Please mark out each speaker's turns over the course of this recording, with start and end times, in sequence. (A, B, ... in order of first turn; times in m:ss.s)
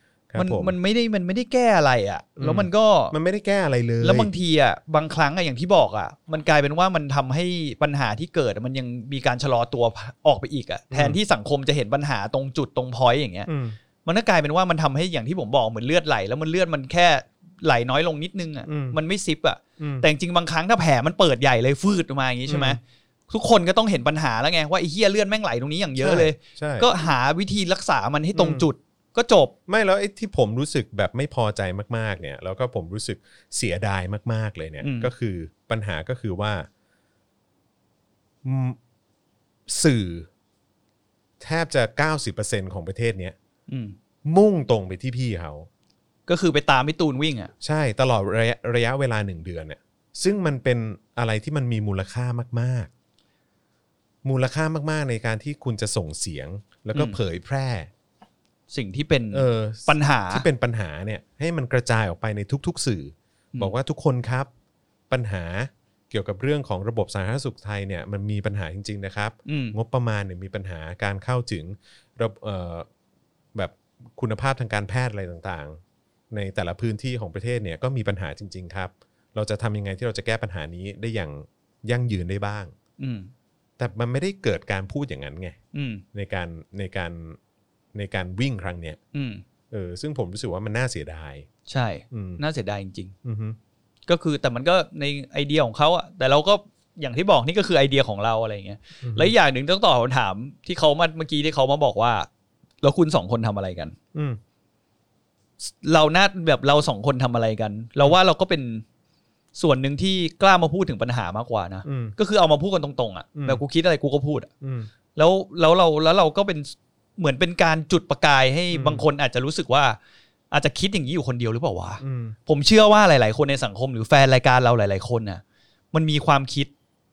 0:00.3-0:00.7 A
0:00.4-0:03.1 B
0:02.4-0:04.3 A
0:04.0-0:13.5 B
0:10.9-0:11.2 A
0:13.5-0:13.8 A
0:14.0-0:29.5 B
0:18.6-0:19.0 A
0:19.8-0:20.1 A
0:22.5-0:22.8 A
0:26.0-0:26.9 A
0:28.3-0:28.6 A
0:29.7-0:36.7 A
0:34.8-0:35.1 B
0:38.4-0:38.8 A
0:39.7-0:40.3 A
0:41.4-0:43.3 A
0:43.7-0:44.0 B
0:44.2-0:45.7 A
0:46.3-0:47.5 B
0:47.6-0:52.9 A
0:54.2-0:57.9 A
0:56.9-0:57.2 B
0:58.7-1:00.4 B
0:59.3-1:04.5 A
1:05.1-1:12.8 A
1:09.4-1:09.8 B
1:13.5-1:15.8 A
1:16.3-1:22.7 A
1:23.0-1:23.3 B
1:23.8-1:25.6 A
1:25.7-1:26.0 B
1:26.1-1:27.4 A
1:27.9-1:29.0 A
1:29.1-1:29.4 B
1:29.7-1:31.5 A
1:31.7-1:33.1 B
1:32.1-1:32.4 A
1:33.2-1:33.6 A
1:34.1-1:42.3 B
1:39.0-1:39.3 A
1:42.8-1:44.0 B
1:44.1-1:44.4 A
1:45.6-1:48.8 B
1:49.6-1:54.5 B
1:51.8-1:52.2 A
1:53.3-1:53.6 A
1:54.6-1:54.9 A
1:55.1-2:00.0 B
1:58.7-1:59.0 A
2:00.5-2:05.4 B
2:02.0-2:02.4 A
2:05.9-2:06.7 B